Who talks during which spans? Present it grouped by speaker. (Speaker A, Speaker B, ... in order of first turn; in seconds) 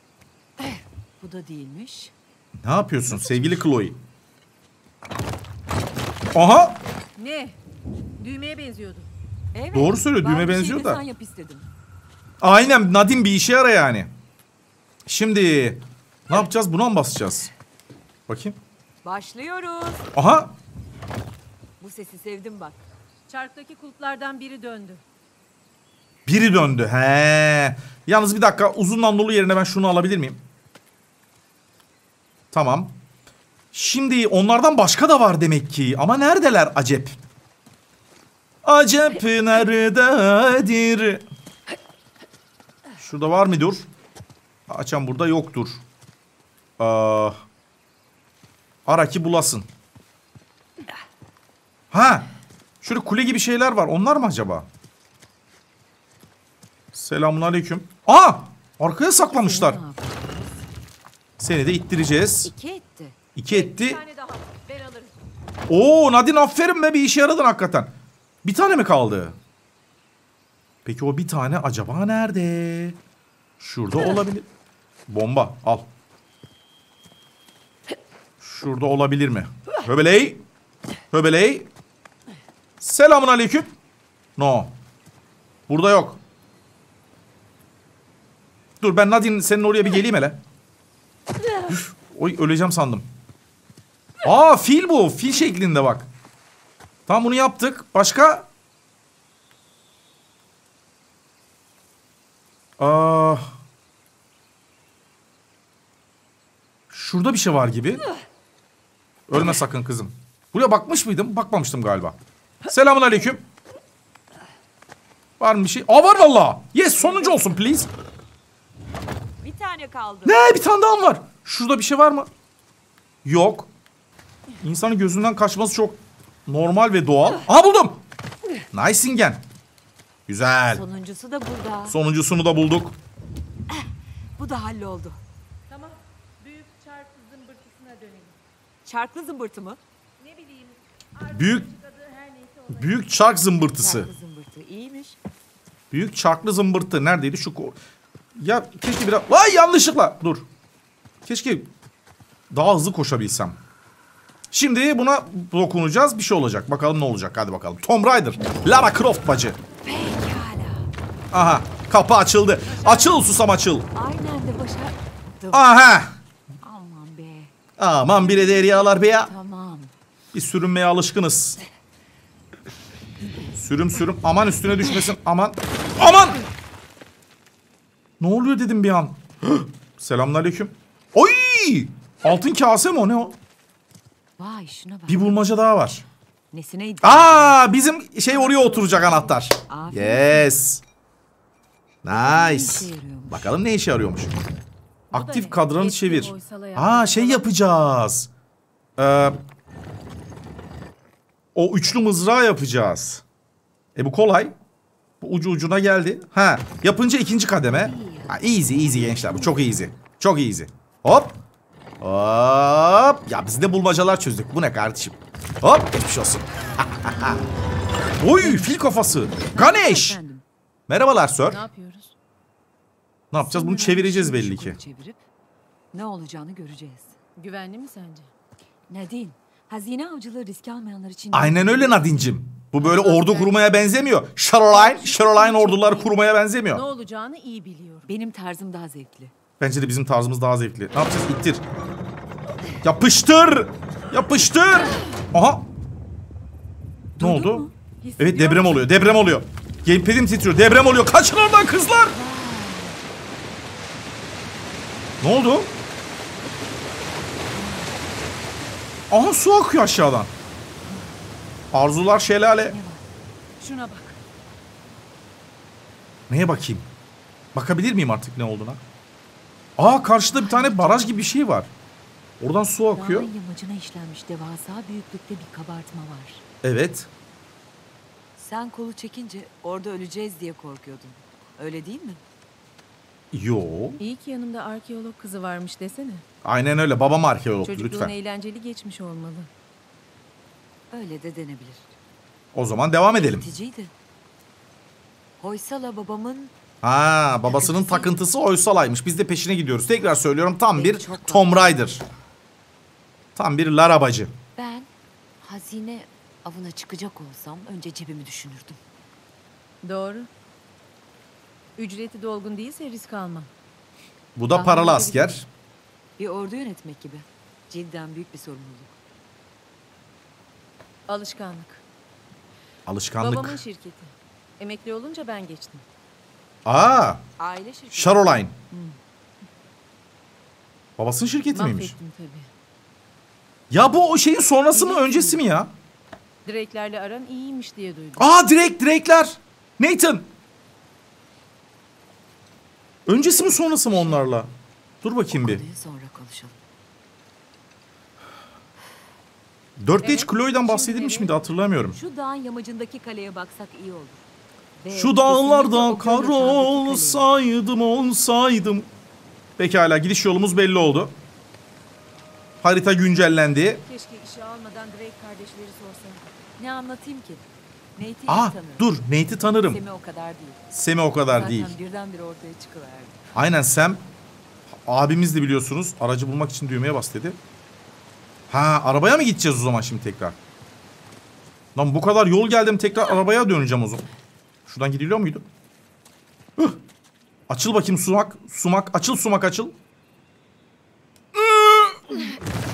Speaker A: 0.6-2.1, 3.1-3.6, 9.5-11.7, 19.0-20.1, 21.8-22.8, 59.2-60.6, 62.4-63.2, 117.2-117.5, 119.4-120.4, 130.7-132.0, 133.7-135.2, 138.8-139.8, 143.7-145.2, 159.8-160.9, 163.9-165.7, 166.6-167.5, 168.1-169.9, 184.4-185.4, 186.5-187.6, 189.7-190.6, 192.1-193.5, 207.6-209.6, 218.4-218.7, 219.4-220.4, 223.4-225.2, 225.9-227.2, 228.9-232.0, 233.1-233.5, 234.7-236.1, 238.1-239.3, 247.2-247.7, 252.1-253.0, 257.5-258.0, 262.5-263.0, 270.3-271.3, 272.9-276.4, 278.4-282.2, 290.9-291.9, 293.1-293.9, 295.4-296.5, 297.4-298.2, 300.7-302.0, 304.6-308.8, 314.6-315.3, 316.2-319.0, 327.4-328.9, 334.7-335.4, 345.3-346.6, 351.9-354.2, 354.8-357.3, 366.6-367.4, 367.9-369.0, 369.5-370.6, 371.3-373.2
Speaker B: 2.6-4.0, 6.3-6.8, 9.7-11.0, 12.4-14.1, 15.1-17.5, 18.3-18.6, 20.1-20.5, 26.2-30.4, 32.5-32.9, 33.7-37.2, 38.6-41.2, 43.0-43.9, 44.7-45.8, 46.8-47.4, 48.9-49.7, 51.9-52.3, 52.8-54.7, 56.9-59.8, 61.4-62.5, 63.3-64.0, 65.7-67.9, 68.4-69.3, 70.8-73.0, 73.6-74.5, 75.1-75.8, 78.4-80.4, 81.1-81.7, 82.8-83.7, 84.4-84.7, 85.7-86.2, 88.8-90.4, 91.7-93.0, 94.2-96.1, 97.1-98.5, 102.8-103.5, 106.9-108.0, 109.3-112.2, 112.7-113.4, 115.4-117.9, 120.2-122.3, 123.2-123.7, 124.6-128.0, 128.7-129.4, 130.3-130.8, 131.9-132.9, 141.3-141.7, 142.7-144.1, 145.9-147.8, 148.3-150.4, 151.2-151.7, 152.5-153.6, 154.5-159.6, 161.3-163.9, 165.5-166.1, 167.8-169.3, 170.3-171.6, 173.6-176.4, 178.2-183.3, 185.1-186.1, 187.0-190.8, 192.0-194.3, 195.1-198.3, 199.0-199.4, 201.5-203.2, 203.9-204.5, 205.2-211.3, 212.0-217.4, 218.2-220.2, 220.9-221.6, 223.3-224.8, 231.3-236.8, 239.6-241.6, 242.8-245.7, 247.2-247.7, 248.2-252.2, 255.2-255.7, 259.1-260.3, 261.7-262.8, 266.3-266.9, 267.5-268.8, 269.8-271.7, 272.4-273.3, 276.6-277.1, 283.3-284.0, 286.4-288.1, 292.5-293.4, 296.8-302.0, 303.4-304.3, 314.4-315.4, 322.9-323.6, 326.6-327.2, 327.9-328.5, 331.0-331.9, 333.7-335.7, 338.2-340.3, 343.1-344.5, 345.0-345.6, 349.8-352.0, 354.9-358.9, 359.6-361.1, 362.6-363.8, 368.3-369.8, 370.7-371.7, 373.3-374.0, 374.8-377.4, 378.5-380.4, 381.7-384.1, 384.7-385.4, 387.5-389.7, 391.3-392.3
Speaker C: 7.2-7.6, 8.2-9.1, 23.3-25.0, 63.5-65.2, 135.7-138.4, 140.2-143.0, 188.3-189.3, 195.1-197.5, 221.5-222.1, 227.4-228.3, 232.8-233.8, 236.7-238.1, 248.0-248.8, 263.6-264.2, 284.0-286.2, 287.6-289.5, 309.8-310.3, 311.8-313.5, 314.6-315.1, 321.1-321.8, 323.2-325.8, 331.5-332.5, 336.4-338.3, 350.0-351.3, 363.9-366.2